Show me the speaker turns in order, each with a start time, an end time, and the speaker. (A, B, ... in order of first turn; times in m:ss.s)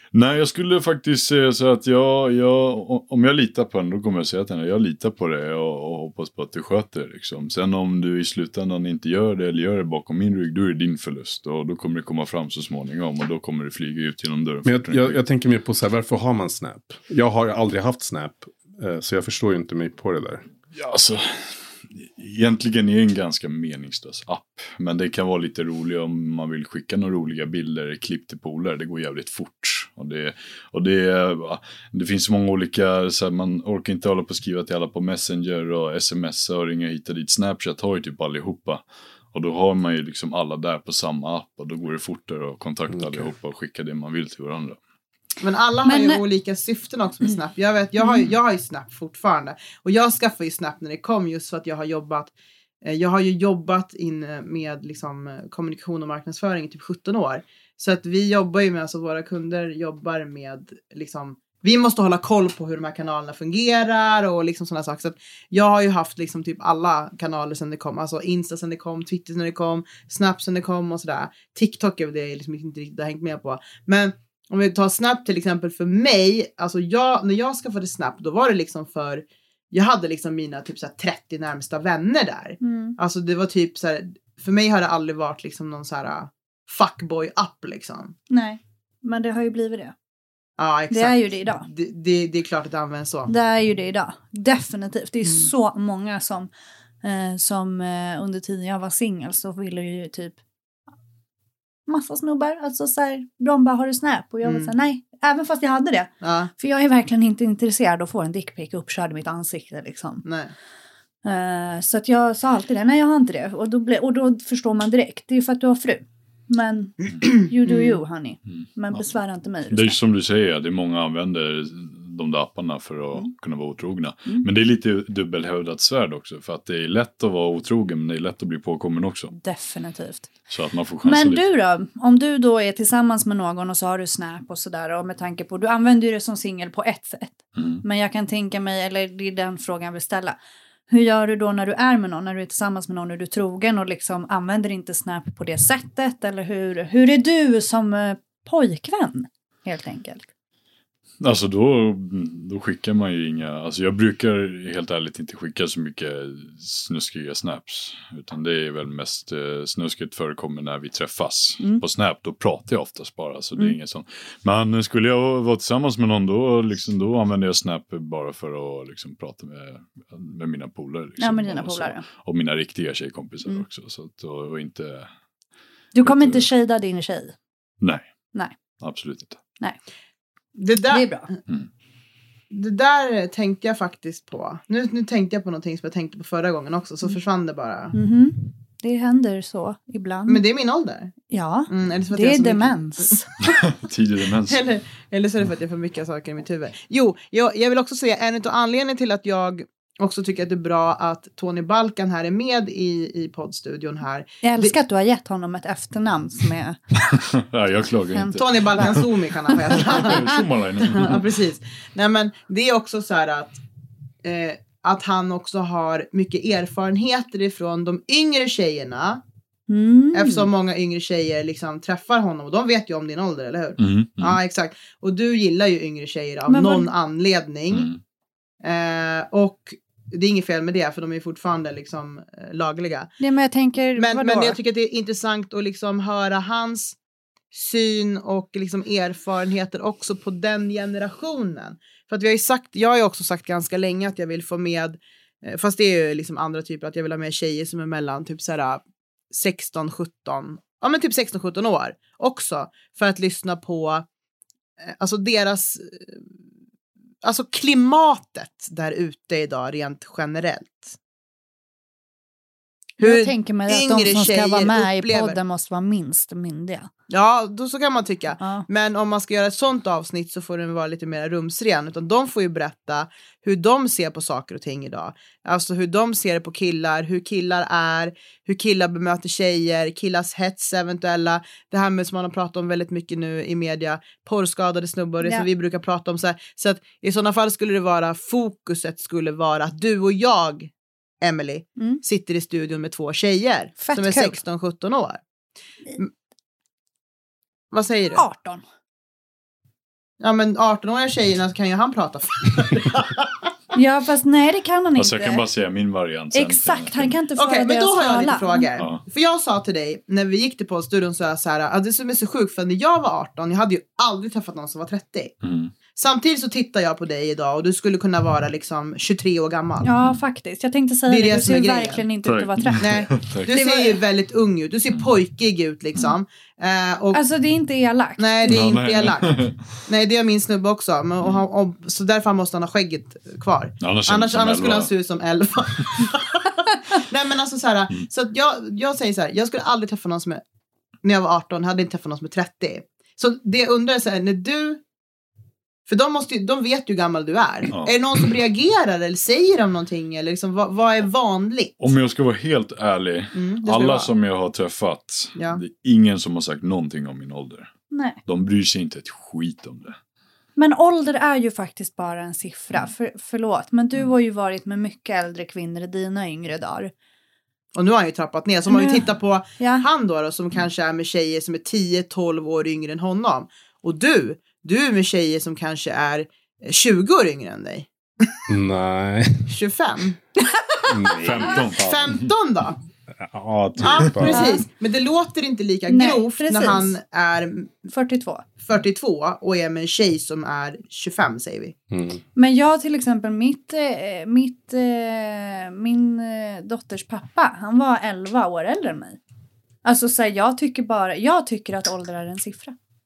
0:00.1-0:15.2 A
0:14.7-0:20.4 B
0:20.7-0:44.8 A
0:42.9-0:43.3 B
0:45.4-1:28.1 C
0:45.8-0:46.2 D
0:48.0-0:48.2 D
1:22.6-1:23.0 D
1:28.3-1:29.9 D
1:30.6-1:33.3 C
1:30.9-1:31.7 D
1:33.3-1:36.5 D
1:35.2-1:35.5 C
1:37.0-1:40.4 D
1:41.9-1:50.2 D
1:44.4-1:44.7 C
1:46.2-1:46.5 C
1:50.2-1:50.5 C
1:51.2-2:00.0 D
1:57.6-1:58.0 C
1:59.7-2:09.4 A
2:09.4-2:10.3 D
2:10.5-2:11.4 A
2:11.0-2:20.4 D
2:17.6-2:17.8 A
2:20.9-2:30.3 D
2:31.2-2:55.1 A
2:51.2-2:52.0 D
2:55.9-2:57.4 D
2:56.0-2:56.5 A
2:58.8-2:59.4 A
3:00.6-3:01.4 C
3:00.9-3:01.3 D
3:02.5-3:08.0 C
3:07.9-3:10.4 D
3:10.3-3:11.1 C
3:11.3-3:13.3 D
3:11.7-3:13.2 C
3:13.4-3:14.6 A
3:14.5-3:24.8 C
3:24.4-3:26.8 D
3:27.1-3:31.3 A
3:28.1-3:29.0 D
3:28.4-3:33.6 C
3:29.7-3:30.4 D
3:34.2-3:39.2 C
3:39.7-3:40.5 D
3:40.1-3:47.9 C
3:43.8-3:44.4 A
3:46.5-3:46.9 D
3:47.7-3:48.0 A
3:48.6-3:53.1 C
3:53.2-3:54.6 D
3:54.0-3:57.0 C
3:57.5-4:14.1 C
4:14.9-4:16.2 C
4:17.2-4:20.9 C
4:23.0-4:25.4 C
4:23.0-4:26.9 D
4:27.1-4:55.2 C
4:28.4-4:28.7 D
4:53.8-4:54.4 D
4:57.7-4:58.2 C
4:58.2-4:58.6 D
5:00.2-5:03.5 C
5:03.7-5:05.4 D
5:05.0-5:07.2 A
5:06.3-5:08.7 D
5:07.4-5:15.3 C
5:08.8-5:09.0 A
5:15.4-5:15.7 A
5:16.0-5:19.9 C
5:19.8-5:24.0 D
5:21.1-5:22.0 C
5:22.2-5:23.5 A
5:22.8-5:27.2 C
5:27.1-5:28.8 D
5:28.2-5:40.4 C
5:28.5-5:29.7 A
5:33.8-5:34.9 A
5:41.0-5:44.8 C
5:45.9-5:51.8 C
5:51.8-5:57.7 A
5:53.3-5:54.1 C
5:55.4-5:55.6 C
5:57.9-5:58.2 D
5:58.3-6:00.0 A
6:00.6-6:06.9 D
6:07.8-6:18.4 C
6:08.7-6:09.9 D
6:18.5-6:19.5 B
6:19.5-6:20.2 C
6:20.5-6:20.9 D
6:20.9-6:22.2 B
6:21.2-6:22.3 A
6:21.8-6:22.8 C
6:23.2-6:24.6 B
6:23.8-6:27.8 C
6:24.3-6:24.6 D
6:25.9-6:26.9 D
6:27.9-6:28.4 D
6:28.6-6:31.8 C
6:31.9-6:32.2 B
6:32.4-6:39.2 D
6:39.8-6:42.8 D